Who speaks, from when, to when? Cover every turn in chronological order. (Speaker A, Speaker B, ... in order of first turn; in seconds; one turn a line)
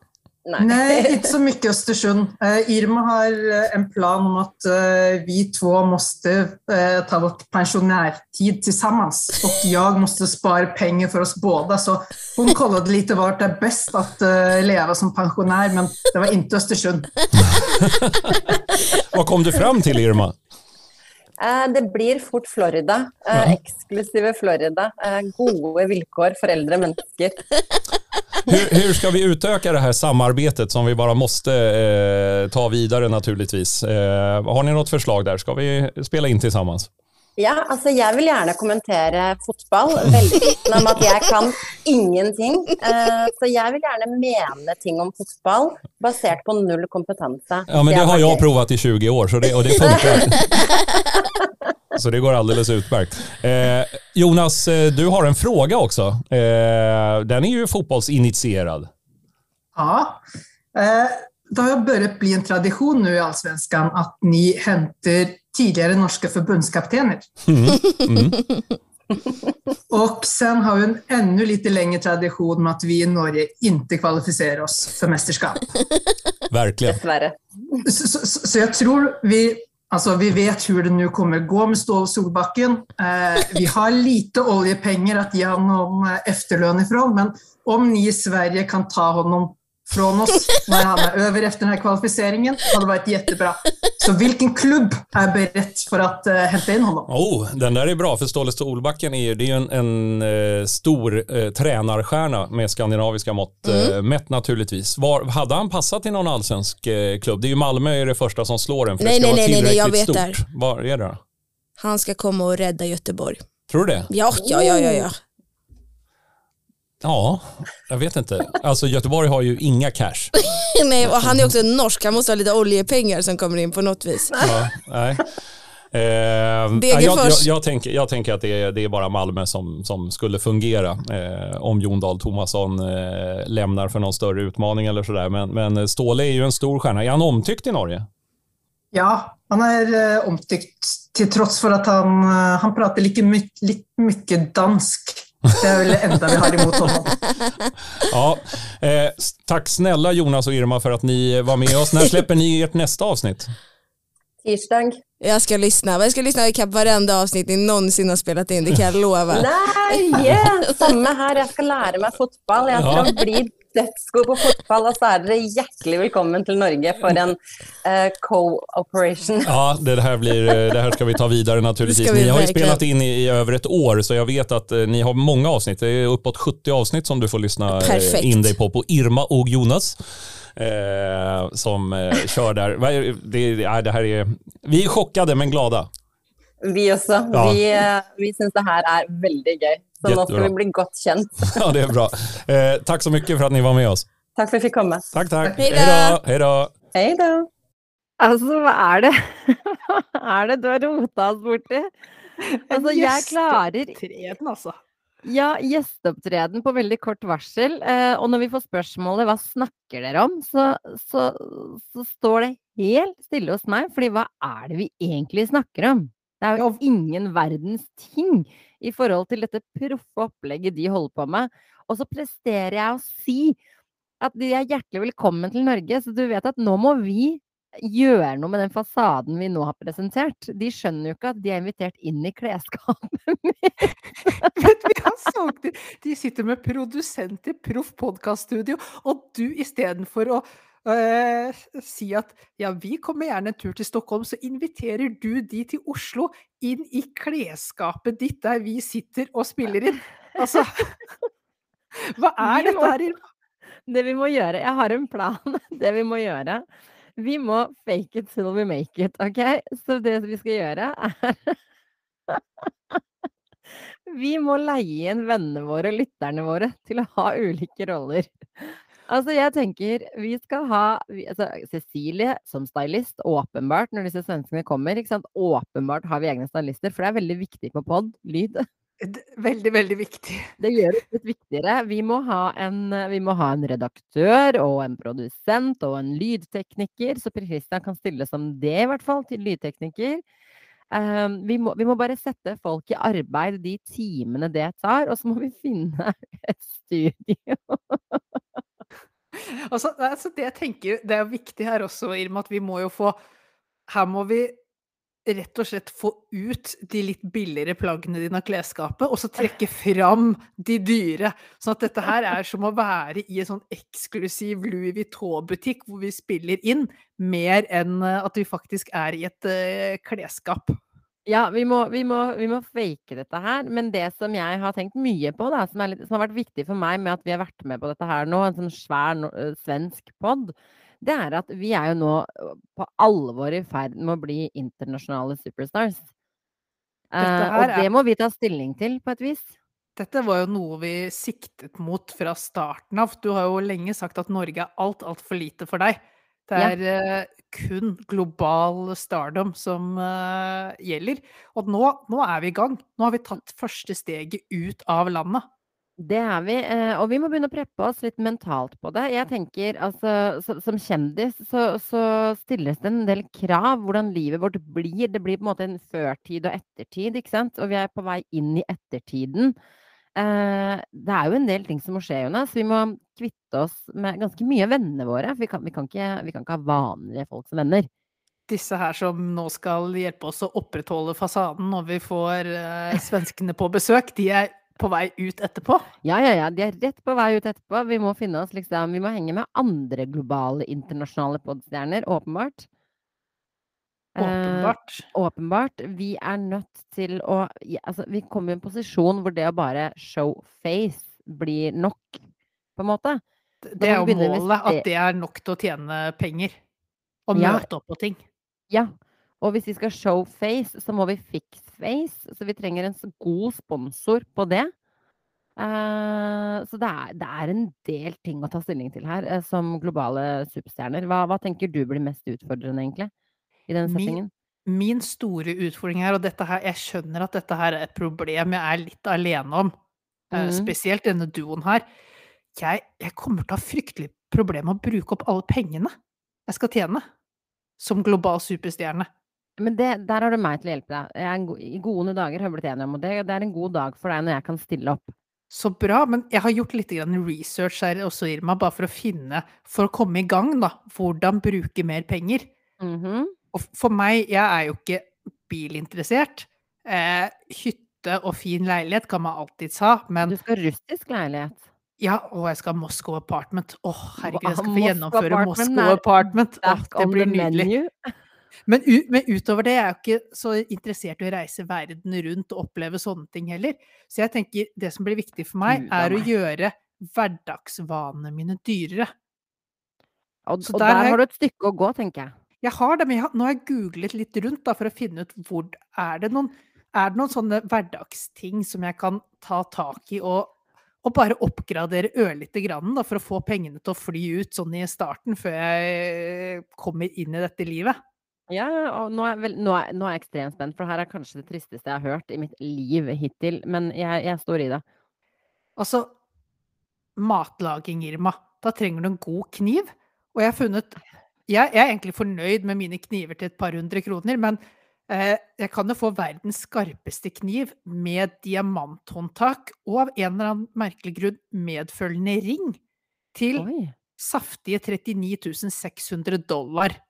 Speaker A: 0.5-1.3
Speaker B: 0.6-17.1
Speaker C: 17.6-20.4
Speaker A: 21.4-27.4
Speaker C: 28.5-36.9
Speaker A: 37.4-48.5
Speaker C: 47.7-50.6
Speaker A: 49.7-50.6
Speaker C: 52.0-58.9
Speaker B: 59.8-60.2
Speaker B: 60.8-67.3
Speaker C: 67.5-68.4
Speaker B: 69.9-75.7
Speaker C: 76.5-77.0
Speaker A: 76.8-77.4
Speaker B: 77.9-97.1
Speaker C: 97.1-111.2
Speaker D: 103.7-104.0
Speaker D: 109.0-110.4
Speaker D: 111.8-113.4
Speaker C: 113.7-114.1
Speaker D: 114.1-115.2
Speaker A: 114.4-115.1
Speaker C: 117.0-120.4
Speaker D: 120.5-124.3
Speaker C: 121.0-121.5
Speaker C: 124.4-125.4
Speaker C: 125.9-138.1
Speaker D: 126.8-127.5
Speaker B: 138.9-147.2
Speaker C: 148.0-153.5
Speaker A: 154.4-155.0
Speaker D: 155.2-159.5
Speaker A: 159.3-169.5
Speaker C: 162.7-163.1
Speaker C: 169.4-180.0
Speaker D: 171.8-172.8
Speaker D: 177.8-178.5
Speaker C: 180.6-185.9
Speaker A: 186.6-191.6
Speaker C: 187.3-187.6
Speaker C: 190.1-190.5
Speaker C: 191.5-194.1
Speaker A: 194.3-195.1
Speaker C: 195.1-196.7
Speaker D: 195.6-196.2
Speaker A: 196.9-197.5
Speaker E: 198.2-201.9
Speaker F: 202.4-204.8
Speaker E: 202.7-204.0
Speaker E: 205.2-223.6
Speaker E: 224.2-234.5
Speaker F: 234.5-251.0
Speaker F: 252.0-253.2
Speaker E: 252.4-253.0
Speaker E: 253.9-261.6
Speaker E: 262.3-263.0
Speaker E: 264.1-278.7
Speaker F: 279.0-280.5
Speaker E: 280.6-290.2
Speaker E: 290.9-298.4
Speaker F: 299.3-303.2
Speaker F: 303.9-304.6
Speaker F: 305.3-320.8
Speaker E: 321.3-336.1
Speaker E: 337.1-339.5
Speaker F: 337.2-337.9
Speaker F: 340.0-355.4
Speaker E: 356.0-369.6
Speaker E: 370.2-377.9
Speaker F: 378.5-385.9
Speaker E: 386.0-392.7
Speaker E: 394.2-402.2
Speaker F: 394.2-395.0
Speaker E: 402.8-403.2
Speaker F: 403.6-406.6
Speaker E: 403.8-404.8
Speaker F: 407.3-408.2
Speaker E: 407.4-407.7
Speaker E: 408.7-414.7
Speaker E: 415.6-423.1
Speaker E: 423.7-424.3
Speaker F: 423.9-429.7
Speaker F: 430.3-431.9
Speaker E: 430.3-430.7
Speaker F: 432.6-435.9
Speaker F: 436.5-437.0
Speaker F: 437.8-439.1
Speaker E: 439.6-445.1
Speaker F: 445.5-452.5
Speaker E: 452.8-453.4
Speaker F: 453.5-460.4
Speaker E: 460.2-461.6
Speaker F: 462.0-467.7
Speaker E: 464.2-468.1
Speaker F: 468.7-479.1
Speaker E: 475.7-476.3
Speaker E: 480.5-482.3
Speaker F: 480.6-481.2
Speaker F: 482.6-498.0
Speaker E: 498.5-504.8
Speaker F: 505.8-506.1
Speaker F: 507.2-511.0
Speaker F: 511.5-522.8
Speaker F: 523.3-523.7
Speaker E: 523.6-523.9
Speaker F: 524.2-527.0